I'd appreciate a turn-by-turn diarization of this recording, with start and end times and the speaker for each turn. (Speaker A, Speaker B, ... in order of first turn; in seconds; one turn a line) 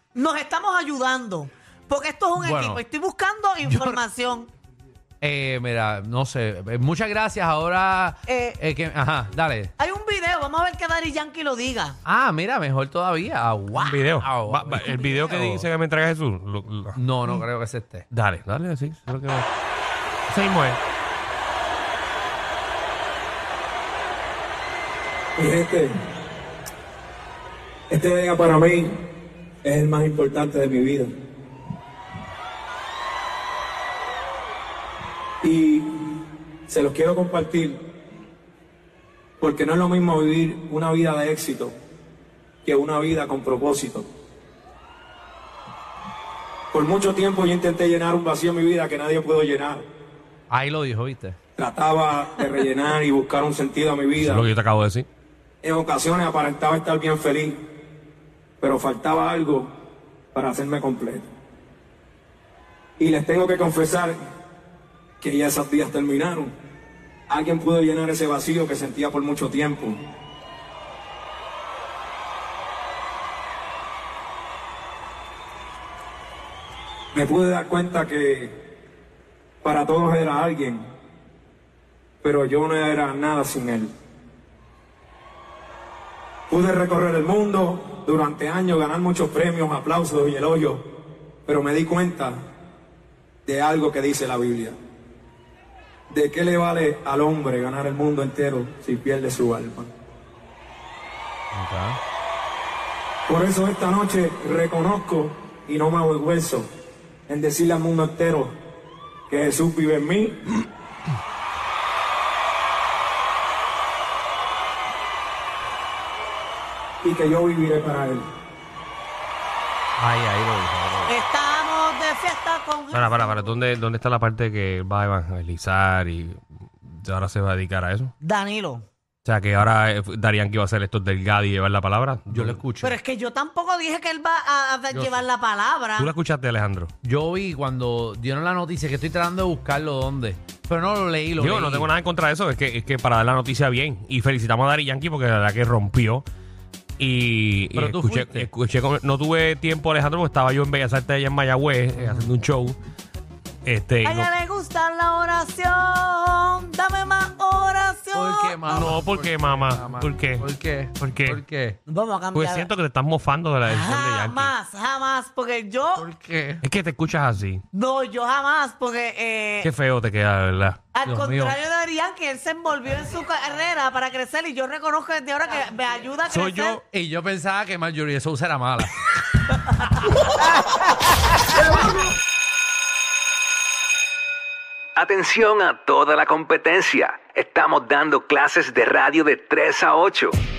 Speaker A: 0.1-4.5
Speaker B: 2.4-2.8
Speaker B: 3.6-4.0
Speaker B: 5.2-9.7
Speaker A: 8.3-8.6
Speaker A: 9.8-12.0
Speaker B: 12.1-15.7
Speaker C: 13.7-17.4
Speaker B: 16.9-18.1
Speaker C: 18.1-19.5
Speaker C: 20.3-20.8
Speaker D: 25.4-25.9
Speaker D: 27.9-29.0
Speaker D: 29.6-31.1
Speaker D: 35.4-37.8
Speaker D: 39.4-41.7
Speaker D: 42.6-44.1
Speaker D: 46.7-49.9
Speaker B: 50.5-51.4
Speaker D: 51.6-54.5
Speaker C: 54.1-55.1
Speaker D: 55.6-57.6
Speaker D: 58.6-59.7
Speaker D: 60.3-61.3
Speaker D: 63.0-64.2
Speaker D: 65.2-66.5
Speaker D: 67.3-70.0
Speaker D: 77.1-78.6
Speaker D: 79.6-80.9
Speaker D: 82.2-83.9
Speaker D: 86.5-90.9
Speaker D: 91.5-92.4
Speaker D: 93.5-94.8
Speaker D: 96.1-99.9
Speaker B: 101.5-102.0
Speaker D: 103.3-106.7
Speaker D: 107.3-108.5
Speaker D: 109.3-110.5
Speaker D: 117.0-118.3
Speaker B: 120.0-121.2
Speaker A: 121.1-123.4
Speaker C: 122.9-128.1
Speaker A: 128.2-128.8
Speaker C: 129.2-132.6
Speaker B: 132.3-133.0
Speaker A: 132.8-136.1
Speaker B: 134.9-135.2
Speaker C: 136.0-136.9
Speaker B: 137.0-141.9
Speaker C: 141.4-146.2
Speaker C: 147.0-152.8
Speaker B: 147.7-148.5
Speaker B: 151.9-152.3
Speaker C: 153.7-154.3
Speaker A: 154.0-158.7
Speaker B: 158.1-161.8
Speaker C: 158.7-160.5
Speaker C: 161.0-161.4
Speaker A: 161.9-162.7
Speaker C: 162.3-164.5
Speaker A: 163.7-166.1
Speaker B: 166.0-166.7
Speaker C: 166.6-167.6
Speaker A: 167.7-169.7
Speaker C: 169.6-170.8
Speaker A: 170.9-176.8
Speaker B: 171.1-171.6
Speaker C: 176.3-176.8
Speaker B: 176.8-178.9
Speaker E: 185.0-190.4